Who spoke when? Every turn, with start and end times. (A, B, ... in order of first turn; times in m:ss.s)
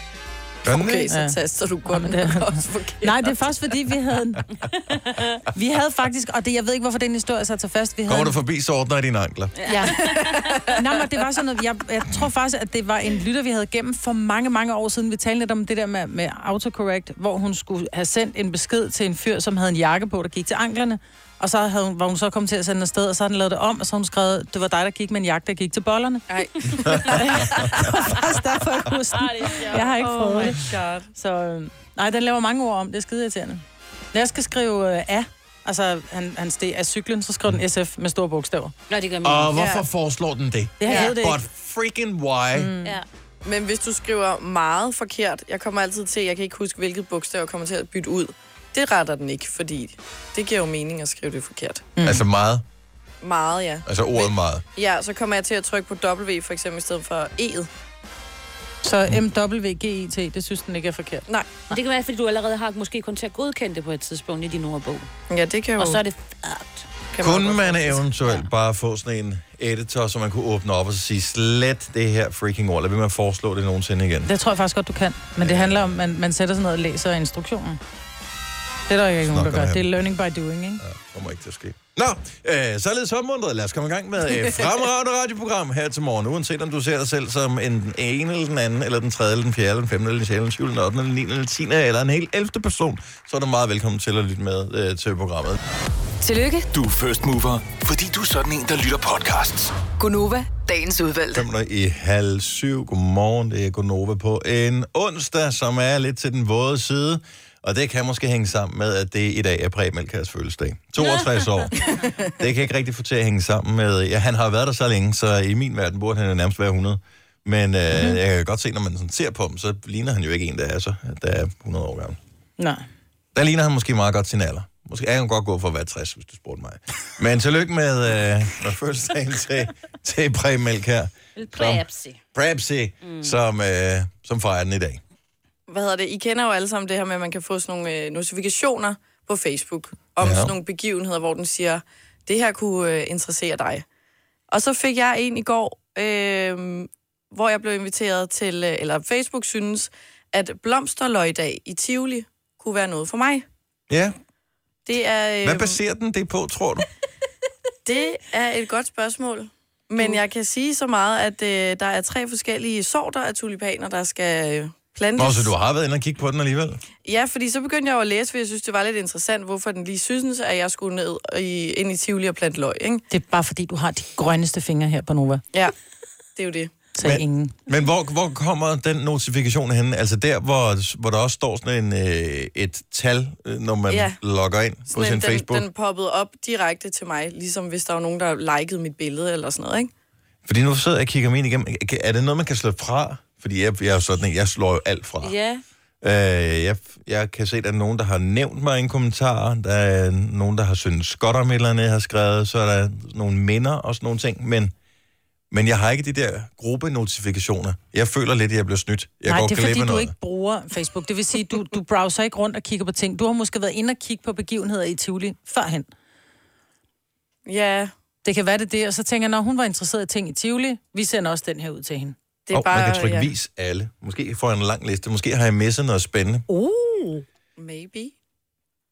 0:00.6-0:01.1 A
0:00.7-0:03.3 B
0:01.1-0:01.4 C
0:01.9-0:04.4 C
0:04.9-0:05.4 D
0:05.5-0:08.4 C
0:08.1-0:09.6 A
0:09.6-0:26.3 C
0:09.7-0:10.5 D
0:09.9-0:10.8 B
0:26.3-0:27.9 B
0:26.9-0:30.6 C
0:26.9-0:27.7 A
0:29.1-0:30.5 D
0:29.7-0:31.1 B
0:31.1-0:38.7 C
0:38.9-0:39.6 D
0:39.2-0:42.7 A
0:39.5-0:39.8 B
0:40.8-0:41.4 C
0:40.8-0:41.1 B
0:42.5-0:43.0 C
0:43.4-0:51.9 B
0:52.0-0:52.2 C
0:52.0-0:52.6 A
0:53.2-0:57.7 B
0:53.8-0:54.6 A
0:58.8-1:01.2 C
1:01.7-1:05.1 D
1:05.3-1:06.0 B
1:05.8-1:06.9 D
1:07.1-1:08.0 B
1:07.2-1:14.3 A
1:14.2-1:17.8 C
1:15.4-1:16.0 A
1:18.9-1:20.8 C
1:19.2-1:20.0 A
1:20.8-1:35.6 A
1:36.2-1:36.7 E
1:36.7-1:39.8 F
1:39.9-1:41.4 E
1:41.3-1:51.8 A
1:51.0-1:51.5 D
1:52.4-2:02.2 A
1:57.9-1:58.2 C
2:02.6-2:02.8 C
2:03.3-2:11.8 A
2:11.4-2:12.2 D
2:12.3-2:15.0 A
2:13.0-2:13.3 D
2:15.7-2:23.8 B
2:20.2-2:20.5 A
2:24.5-2:33.4 B
2:33.9-2:34.1 A
2:34.8-2:35.8 B
2:35.4-2:36.9 A
2:37.8-2:45.5 B
2:45.2-2:46.8 A
2:47.0-2:53.0 B
2:53.1-2:55.4 C
2:56.4-2:56.7 B
2:56.9-2:57.6 C
2:57.0-3:05.7 A
3:03.9-3:04.2 B
3:04.9-3:09.9 B
3:10.4-3:15.3 A
3:15.2-3:15.6 D
3:16.0-3:24.7 A
3:25.5-3:30.1 A
3:29.3-3:35.9 C
3:37.4-3:37.9 B
3:38.2-3:42.1 C
3:42.5-3:43.3 B
3:42.5-3:46.4 A
3:46.5-3:47.2 C
3:47.6-3:48.1 B